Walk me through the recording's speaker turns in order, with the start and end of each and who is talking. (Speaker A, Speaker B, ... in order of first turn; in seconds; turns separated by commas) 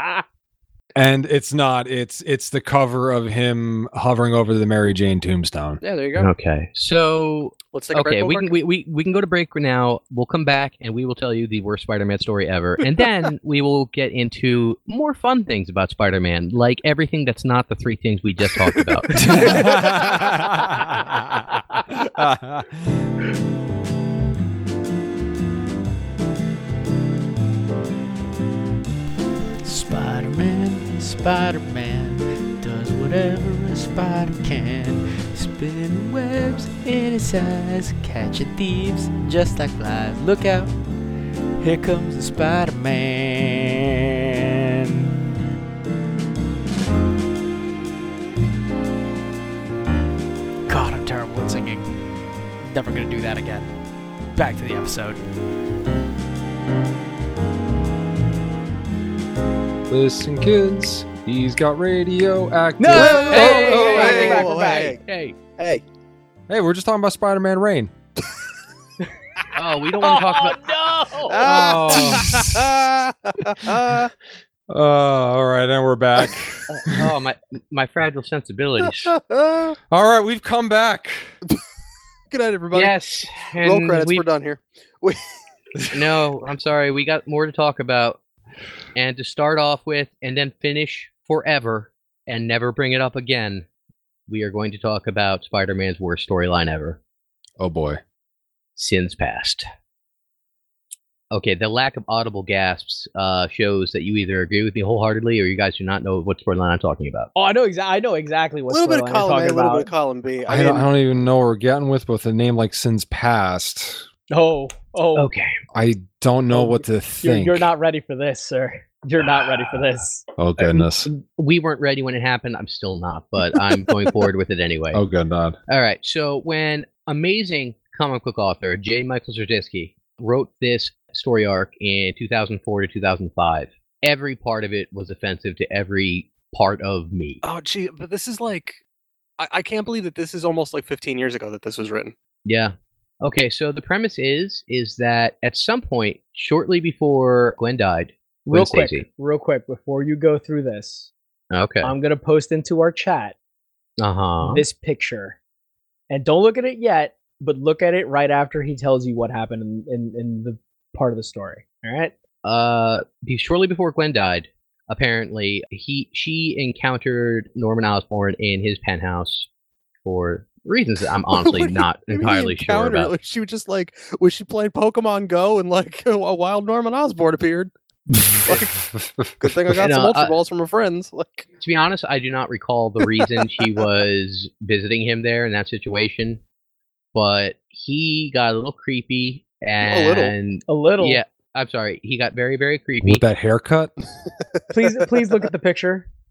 Speaker A: 0.9-5.8, Speaker B: 5.8-6.3, Speaker C: 6.2-19.6, Speaker B: 7.7-8.6, Speaker A: 19.2-22.7, Speaker D: 29.6-40.7, Speaker D: 41.6-45.1, Speaker D: 50.7-51.9, Speaker D: 52.6-53.7, Speaker D: 54.4-55.2, Speaker A: 59.9-64.4, Speaker E: 62.8-65.0, Speaker C: 63.0-65.4, Speaker B: 63.2-65.0, Speaker B: 65.6-65.8, Speaker A: 66.5-67.9, Speaker C: 69.5-70.8, Speaker E: 70.0-71.7, Speaker B: 71.3-74.1, Speaker C: 71.4-72.3, Speaker A: 71.5-72.4, Speaker A: 74.7-77.1, Speaker C: 76.7-79.1, Speaker B: 78.8-79.8, Speaker A: 79.9-81.3, Speaker B: 82.3-83.0, Speaker C: 82.7-84.3, Speaker B: 83.6-85.2, Speaker C: 85.9-88.2, Speaker C: 88.9-93.7, Speaker C: 94.3-97.0, Speaker A: 97.6-98.0, Speaker C: 98.8-99.7, Speaker C: 101.3-107.3, Speaker E: 107.3-109.9, Speaker B: 108.7-110.9, Speaker A: 110.5-114.0, Speaker E: 114.3-115.3, Speaker C: 115.2-115.5, Speaker A: 115.7-117.7, Speaker E: 116.5-120.2, Speaker A: 120.4-121.1, Speaker C: 120.6-125.0, Speaker A: 124.9-125.6, Speaker C: 125.7-137.4, Speaker B: 137.4-138.8, Speaker B: 139.4-142.1, Speaker C: 142.4-149.1, Speaker E: 148.4-151.1, Speaker C: 151.5-151.9, Speaker E: 151.8-153.3, Speaker C: 154.0-154.6, Speaker E: 154.4-155.4, Speaker E: 156.1-162.1, Speaker C: 162.4-169.5, Speaker C: 170.0-173.1, Speaker B: 171.3-177.7, Speaker A: 178.3-179.7, Speaker B: 178.4-178.8, Speaker B: 179.4-181.5, Speaker C: 179.7-180.4, Speaker C: 181.6-186.4, Speaker C: 187.1-193.2, Speaker B: 189.8-190.3, Speaker E: 190.7-191.2, Speaker A: 193.0-193.9, Speaker E: 194.7-196.1